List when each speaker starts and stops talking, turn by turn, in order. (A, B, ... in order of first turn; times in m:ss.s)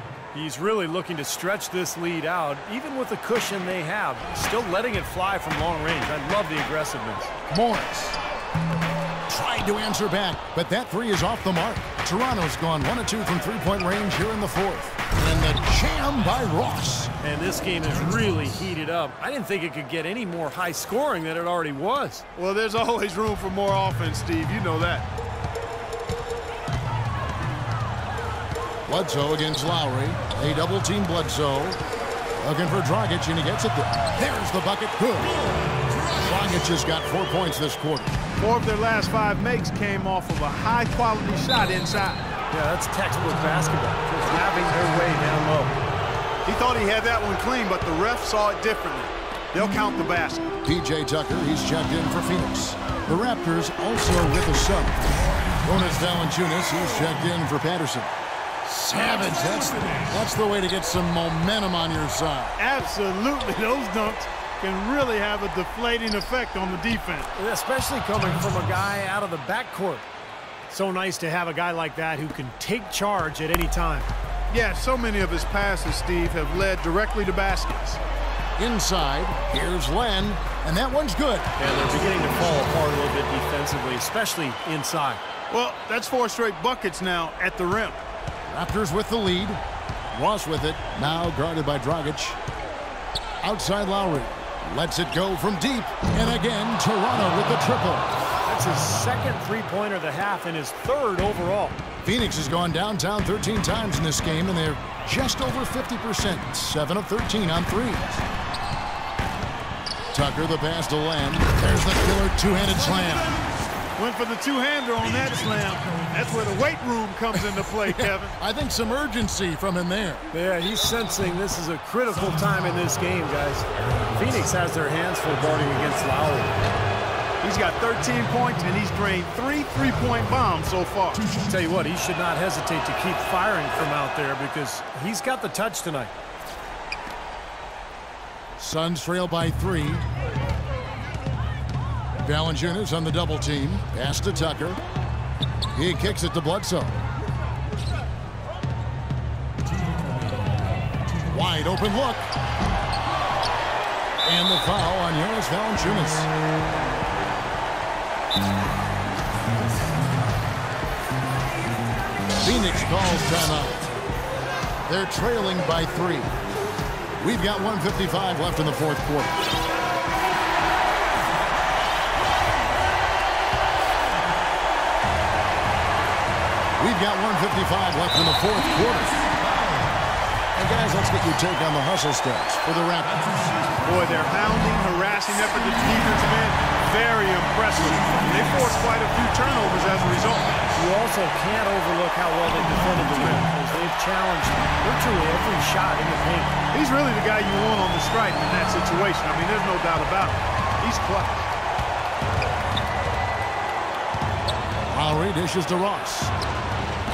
0:00.3-0:07.3 A
0:07.5-0:08.2 B
0:09.3-0:17.1 B
0:17.2-0:22.2 A
0:22.4-0:25.0 C
0:28.9-0:31.8 B
0:32.4-0:38.2 B
0:38.4-0:42.3 C
0:42.5-0:45.7 A
0:46.4-0:50.5 C
0:50.6-0:55.0 B
0:55.6-0:58.1 B
0:58.6-1:02.5 B
1:02.6-1:07.3 C
1:07.4-1:10.0 A
1:10.7-1:14.1 A
1:14.5-1:18.0 C
1:18.6-1:21.5 B
1:21.6-1:25.2 A
1:25.5-1:28.0 C
1:28.4-1:29.6 B
1:30.1-1:32.4 B
1:33.4-1:38.2 B
1:38.4-1:41.8 A
1:42.0-1:48.2 B
1:50.1-1:53.4 B
1:54.0-1:58.3 C
1:57.8-2:00.2 B
2:00.3-2:06.6 A
2:07.4-2:11.3 C
2:11.4-2:16.1 A
2:18.6-2:20.0 B
2:22.2-2:24.8 B
2:25.8-2:27.0 B
2:31.0-2:32.3 B
2:34.2-2:36.3 B
2:42.4-2:43.9 B
2:44.9-2:46.3 B
2:47.2-2:49.4 B
2:56.8-2:59.3 B
3:00.5-3:03.4 B
3:03.8-3:10.6 C
3:10.7-3:16.6 A
3:16.7-3:21.4 C
3:24.9-3:26.3 B